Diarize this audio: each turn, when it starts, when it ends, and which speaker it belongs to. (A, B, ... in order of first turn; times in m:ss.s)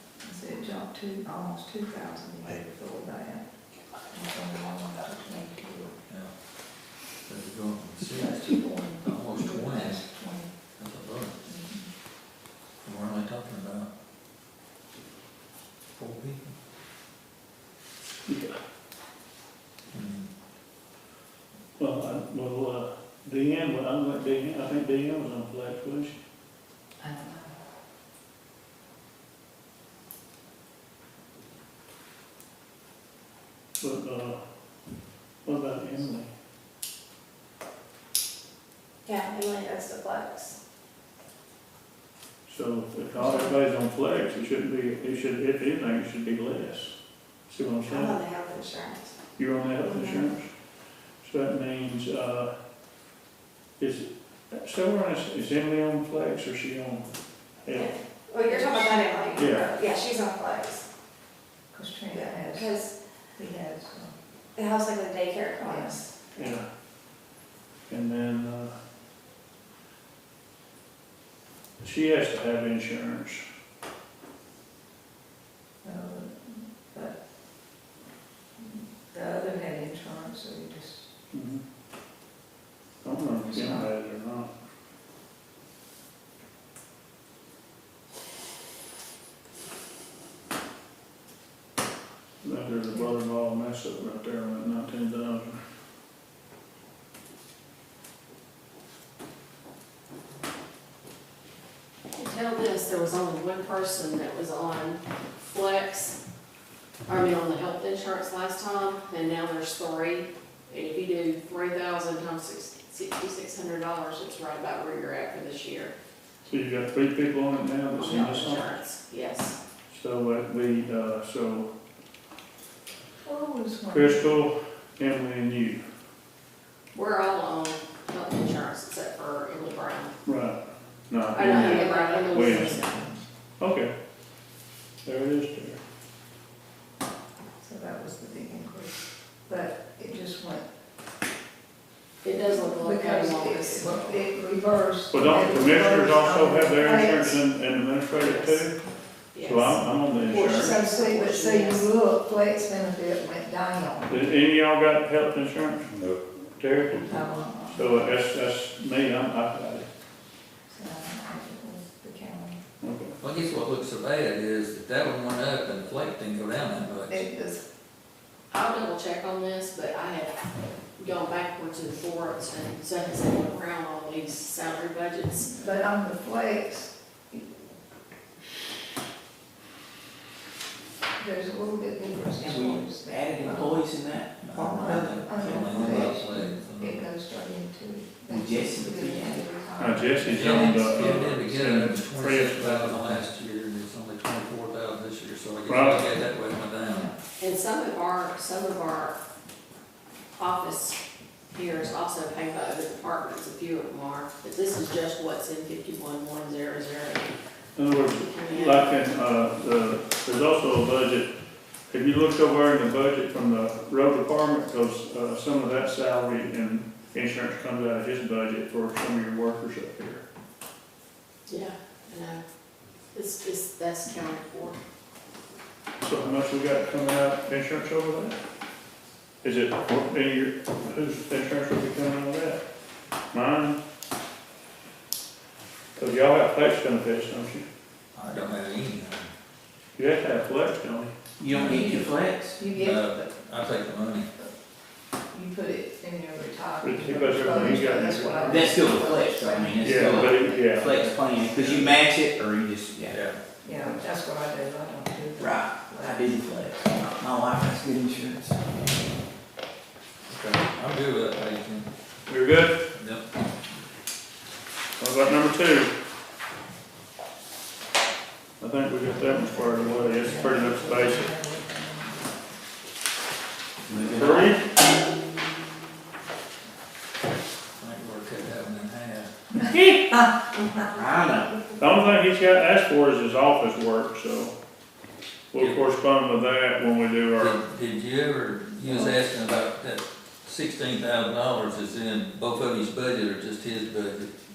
0:00.2-0:03.5 A
0:04.1-0:05.9 A
0:07.2-0:10.1 B
0:08.1-0:10.5 A
0:10.8-0:11.4 B
0:11.4-0:11.9 A
0:12.8-0:13.9 B
0:16.0-0:16.5 B
0:18.2-0:18.6 C
0:19.9-0:20.3 B
0:21.8-0:26.2 C
0:27.0-0:27.6 A
0:33.8-0:34.4 C
0:35.4-0:36.3 C
0:39.0-0:40.6 D
0:42.4-0:46.9 C
0:47.5-0:48.2 C
0:47.8-0:49.1 D
0:49.4-0:50.5 C
0:51.2-0:52.5 C
0:53.8-0:57.1 C
0:57.6-0:57.9 C
0:57.7-1:00.8 D
0:58.4-0:59.0 A
0:59.4-0:59.7 C
1:01.7-1:02.8 A
1:02.2-1:02.9 D
1:03.4-1:04.1 A
1:04.6-1:06.5 D
1:05.6-1:06.0 A
1:06.3-1:06.6 C
1:07.9-1:08.7 C
1:11.8-1:13.4 C
1:15.8-1:17.2 A
1:18.6-1:21.1 A
1:21.3-1:21.6 C
1:23.0-1:24.5 C
1:23.4-1:23.9 A
1:32.4-1:35.6 C
1:42.1-1:46.2 E
1:47.1-1:55.9 E
1:56.4-1:58.7 C
1:58.0-1:59.6 E
1:59.9-2:01.7 C
2:03.2-2:04.4 A
2:03.9-2:05.8 C
2:06.9-2:10.1 E
2:10.2-2:10.6 C
2:11.1-2:12.9 C
2:11.3-2:12.9 E
2:11.4-2:13.2 A
2:11.9-2:12.2 D
2:13.6-2:13.9 C
2:15.0-2:15.8 C
2:17.6-2:20.6 A
2:22.2-2:24.2 E
2:22.4-2:27.4 A
2:25.1-2:28.8 C
2:28.2-2:28.6 E
2:29.3-2:31.9 E
2:29.4-2:30.7 C
2:30.3-2:34.2 A
2:34.1-2:35.9 C
2:36.6-2:39.8 C
2:37.1-2:38.2 A
2:40.7-2:42.6 A
2:42.8-2:43.1 C
2:43.2-2:47.2 B
2:47.1-2:47.6 A
2:48.5-2:50.4 E
2:51.0-2:55.5 E
2:55.6-2:57.5 A
3:01.2-3:03.9 A
3:02.4-3:06.3 F
3:04.4-3:07.1 B
3:04.5-3:11.3 A
3:08.3-3:09.4 F
3:09.8-3:13.3 C
3:10.3-3:17.1 B
3:15.6-3:16.1 C
3:17.4-3:19.2 E
3:20.4-3:21.0 E
3:21.5-3:27.3 E
3:27.8-3:31.3 C
3:28.1-3:28.9 E
3:31.9-3:40.2 C
3:41.5-3:42.4 E
3:43.1-3:44.8 E
3:46.0-3:48.4 C
3:49.4-3:52.6 C
3:53.3-3:53.8 C
3:56.0-3:57.7 C
3:58.1-3:59.3 B
4:00.0-4:01.1 C
4:01.4-4:02.6 F
4:01.5-4:02.1 B
4:01.7-4:02.0 A
4:02.6-4:03.3 A
4:02.7-4:04.3 B
4:05.3-4:10.7 A
4:06.8-4:08.7 C
4:08.4-4:13.2 F
4:09.8-4:11.0 C
4:13.1-4:13.4 B
4:13.6-4:16.6 A
4:15.4-4:18.6 F
4:20.3-4:21.9 B
4:22.3-4:22.8 C
4:22.9-4:23.2 B
4:25.0-4:25.9 C
4:28.6-4:31.3 C
4:29.2-4:32.3 A
4:33.9-4:34.6 F
4:34.1-4:34.6 C
4:37.8-4:39.3 B
4:39.7-4:40.1 F
4:40.7-4:41.9 D
4:40.8-4:41.6 F
4:41.8-4:44.5 C
4:45.5-4:47.6 C
4:45.5-4:45.8 B
4:47.4-4:54.3 B